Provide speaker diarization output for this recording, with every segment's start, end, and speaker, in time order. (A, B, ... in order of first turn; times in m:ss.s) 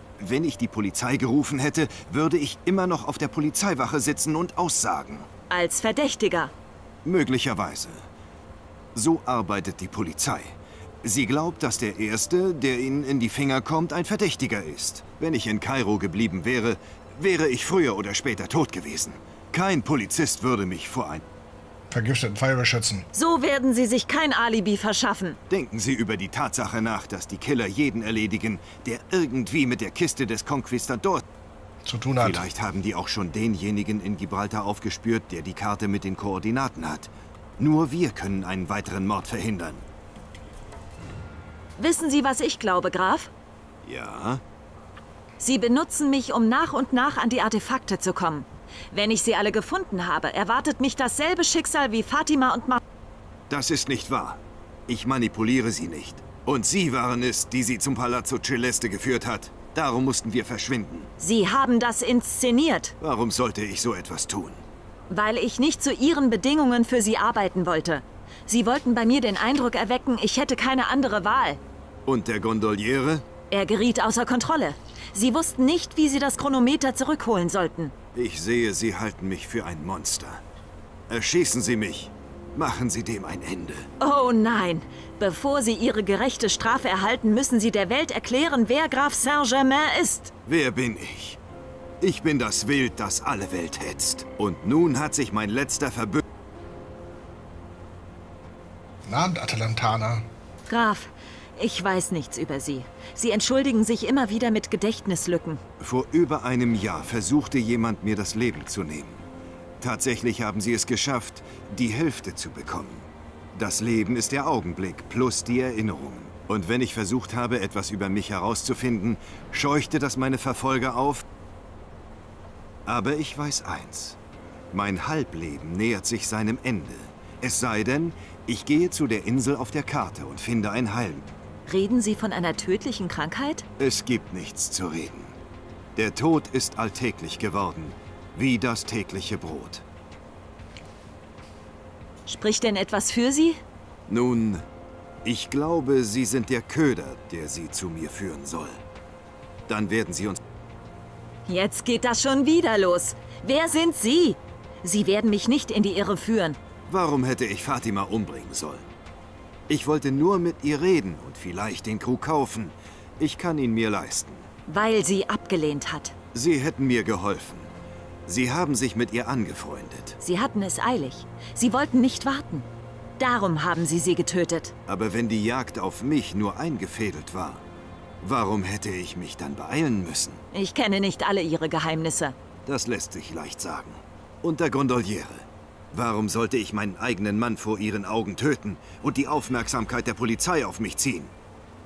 0:00.2-0:05.3 A
0:05.5-0:06.5 B
0:07.0-0:08.0 A
0:08.9-0:21.2 A
0:21.9-0:23.1 C
0:23.1-0:25.4 B
0:25.5-0:31.2 A
0:31.8-0:32.5 C
0:32.2-0:39.8 A
0:41.8-0:43.3 B
0:43.8-0:44.4 A
0:45.4-0:52.8 B
0:53.5-1:01.1 A
1:01.2-1:02.9 B
1:03.0-1:04.6 A
1:05.1-1:11.6 B
1:12.0-1:13.2 A
1:13.5-1:17.9 B
1:18.1-1:20.4 A
1:21.1-1:23.9 A
1:24.0-1:30.3 B
1:30.4-1:31.4 A
1:32.0-1:36.2 A
1:39.0-1:40.3 C
1:40.7-1:45.6 B
1:45.8-1:49.2 A
1:49.8-2:01.2 A
2:02.8-2:04.2 A
2:04.7-2:11.3 A
2:11.7-2:13.6 B
2:13.8-2:15.4 A
2:16.0-2:19.8 A
2:22.3-2:23.6 B
2:24.1-2:24.6 A
2:25.2-2:28.8 A
2:29.7-2:30.4 A
2:31.5-2:36.6 B
2:36.9-2:38.9 A
2:39.7-2:44.5 A
2:44.7-2:46.1 B
2:46.3-2:47.7 A
2:48.2-2:50.2 A
2:50.2-2:52.7 B
2:53.2-2:54.7 B
2:54.9-2:57.6 A
2:58.2-3:00.4 A
3:00.5-3:02.3 B
3:02.6-3:11.3 A